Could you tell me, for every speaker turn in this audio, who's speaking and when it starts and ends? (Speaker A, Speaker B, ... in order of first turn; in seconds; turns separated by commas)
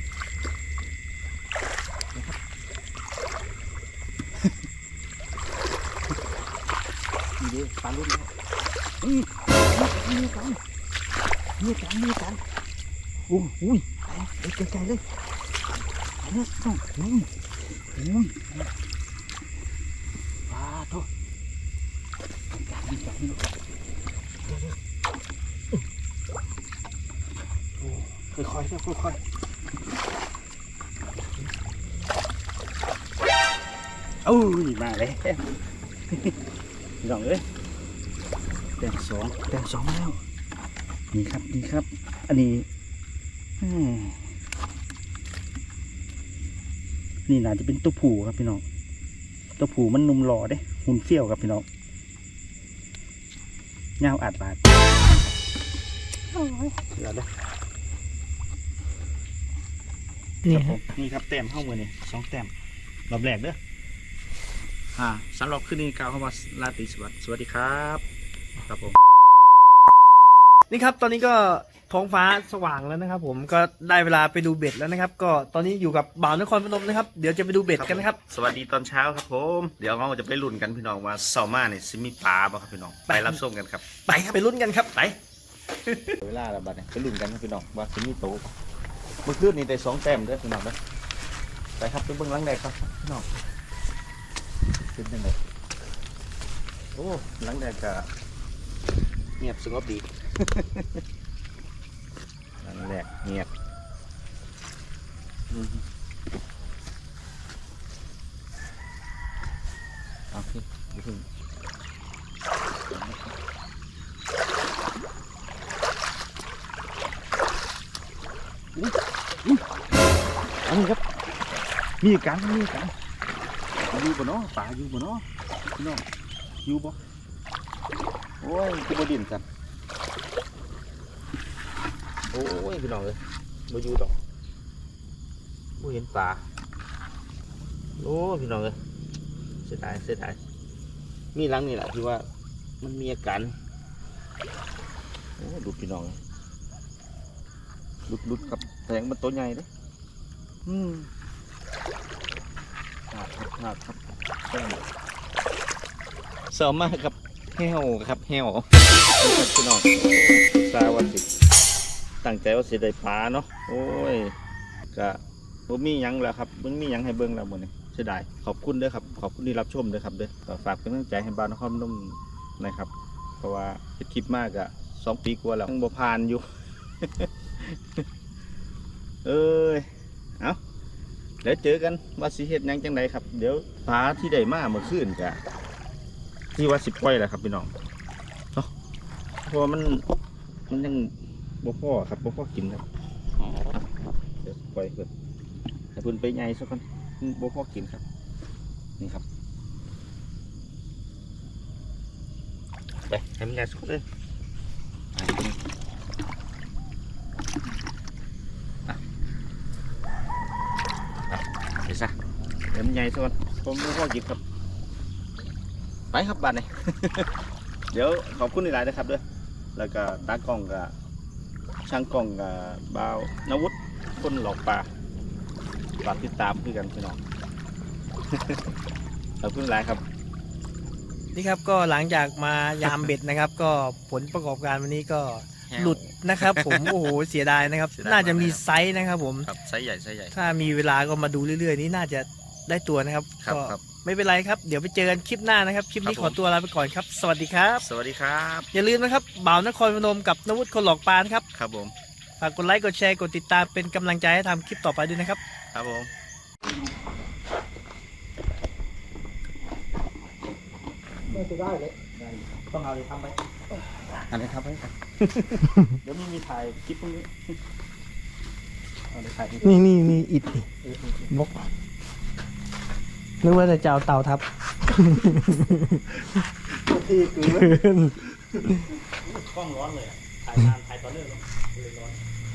Speaker A: 7.4-8.3, Speaker A: 9.0-10.6, Speaker A: 11.6-12.4, Speaker A: 13.3-15.0, Speaker A: 16.2-17.3, Speaker A: 17.9-18.7, Speaker A: 20.5-21.1, Speaker A: 22.5-23.5, Speaker A: 24.5-24.8, Speaker A: 27.8-29.2, Speaker A: 34.2-35.5, Speaker A: 37.0-37.5, Speaker A: 38.8-40.2, Speaker A: 41.1-42.7, Speaker A: 43.6-44.3, Speaker A: 47.3-48.6, Speaker A: 49.6-51.6, Speaker A: 54.0-54.7, Speaker A: 56.3-57.3, Speaker B: 60.5-60.8, Speaker A: 60.5-62.5, Speaker A: 63.1-63.6, Speaker A: 65.0-68.0, Speaker A: 68.7-69.0, Speaker B: 70.7-78.2, Speaker A: 77.7-83.8, Speaker B: 83.1-83.4, Speaker B: 84.1-85.0, Speaker A: 85.9-88.5, Speaker A: 89.2-90.8, Speaker A: 91.8-93.3, Speaker A: 94.9-95.4, Speaker A: 97.0-98.1, Speaker A: 99.4-101.0, Speaker A: 102.6-103.5, Speaker A: 105.5-105.8, Speaker A: 110.3-111.2, Speaker A: 112.9-113.3, Speaker A: 118.8-119.6, Speaker A: 120.6-121.0, Speaker A: 122.0-122.9, Speaker A: 123.9-125.2, Speaker A: 125.8-126.0, Speaker A: 126.6-127.0, Speaker A: 128.4-129.4, Speaker A: 132.3-134.2, Speaker A: 135.8-136.5, Speaker A: 138.0-138.8, Speaker A: 139.6-140.4, Speaker A: 141.3-142.3, Speaker A: 142.8-143.6, Speaker A: 145.4-146.2, Speaker A: 148.1-149.7, Speaker A: 150.7-151.1, Speaker A: 153.1-154.9, Speaker A: 156.5-161.2, Speaker A: 162.2-164.3, Speaker A: 164.9-176.5, Speaker A: 177.0-178.1, Speaker A: 179.2-180.6, Speaker A: 181.4-185.4, Speaker A: 186.6-187.7, Speaker A: 189.5-190.1, Speaker A: 190.7-192.9, Speaker A: 194.4-195.1, Speaker A: 195.9-198.0, Speaker A: 199.0-199.2, Speaker A: 203.1-204.1, Speaker A: 205.1-205.6, Speaker A: 211.3-212.1, Speaker A: 212.7-214.4, Speaker A: 216.1-217.3, Speaker A: 217.9-219.2, Speaker A: 219.8-220.9, Speaker A: 221.9-224.9, Speaker A: 226.0-227.2, Speaker A: 228.3-228.7, Speaker A: 229.4-230.0, Speaker B: 231.3-239.5, Speaker A: 232.8-233.1, Speaker A: 235.7-237.0, Speaker A: 238.0-238.6, Speaker A: 239.5-240.4, Speaker B: 240.3-247.8, Speaker A: 243.4-243.8, Speaker A: 246.0-246.4, Speaker A: 247.8-248.7, Speaker B: 248.7-251.5, Speaker A: 251.5-251.9, Speaker B: 252.4-255.4, Speaker A: 255.7-256.1, Speaker A: 261.3-261.6, Speaker B: 261.5-261.9, Speaker A: 262.1-263.4, Speaker A: 264.3-267.6, Speaker A: 269.1-269.9, Speaker B: 269.6-270.7, Speaker A: 270.8-271.3, Speaker B: 271.3-271.6, Speaker B: 273.4-276.2, Speaker A: 276.3-277.8, Speaker B: 277.4-278.9, Speaker A: 279.1-282.2